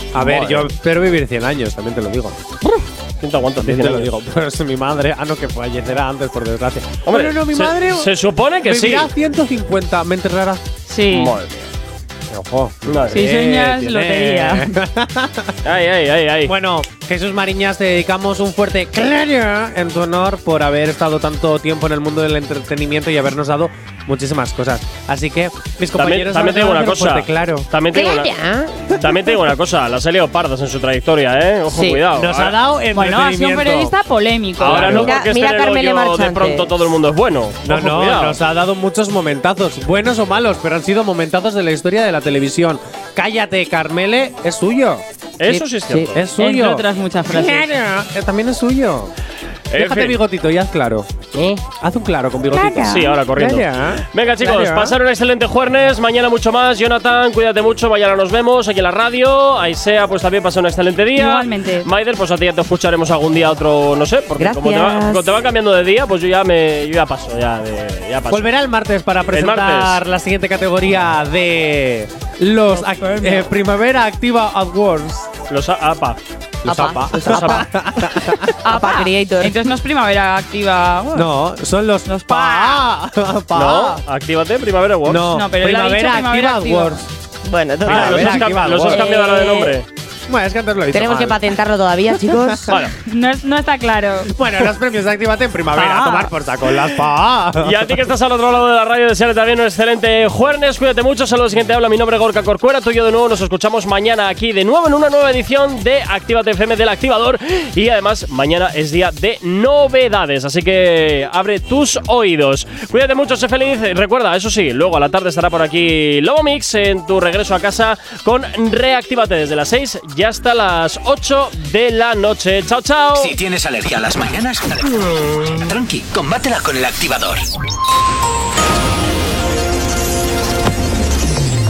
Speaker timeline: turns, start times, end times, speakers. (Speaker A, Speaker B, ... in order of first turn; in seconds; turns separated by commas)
Speaker A: 0.1-2.4, Speaker B: 0.2-0.7, Speaker B: 2.6-4.1, Speaker A: 3.6-8.1, Speaker B: 7.1-9.1, Speaker A: 8.7-10.7, Speaker C: 10.9-11.3, Speaker B: 11.1-11.7, Speaker A: 12.3-15.6, Speaker B: 12.9-13.2, Speaker C: 13.1-14.7, Speaker B: 15.6-16.5, Speaker A: 16.5-27.7, Speaker B: 26.0-28.3, Speaker D: 27.9-29.3, Speaker B: 29.0-32.6, Speaker D: 31.7-32.0, Speaker A: 32.1-33.9, Speaker C: 32.9-35.0, Speaker A: 34.6-35.2, Speaker B: 34.6-38.4, Speaker D: 34.7-36.7, Speaker A: 37.6-49.1, Speaker B: 45.4-46.2, Speaker C: 46.3-47.7, Speaker B: 49.7-50.2, Speaker A: 49.7-55.0, Speaker C: 52.5-53.2, Speaker B: 52.9-68.5, Speaker C: 61.1-61.9, Speaker D: 64.4-65.3, Speaker A: 68.3-75.3, Speaker B: 69.3-70.0, Speaker C: 72.7-73.5, Speaker B: 75.5-76.2, Speaker A: 76.7-78.8, Speaker D: 76.7-79.6, Speaker B: 77.3-77.7, Speaker C: 79.4-81.3, Speaker A: 81.1-84.0, Speaker C: 82.0-82.8, Speaker B: 83.5-85.3, Speaker A: 85.0-87.1, Speaker C: 85.3-87.0, Speaker D: 87.4-89.7, Speaker A: 87.8-89.0, Speaker B: 87.8-89.9, Speaker A: 90.3-91.5, Speaker D: 90.9-92.8, Speaker A: 92.5-92.8, Speaker B: 92.7-92.9, Speaker C: 93.0-94.3, Speaker A: 94.3-97.8, Speaker D: 95.8-96.3, Speaker B: 97.6-123.3, Speaker E: 123.2-127.5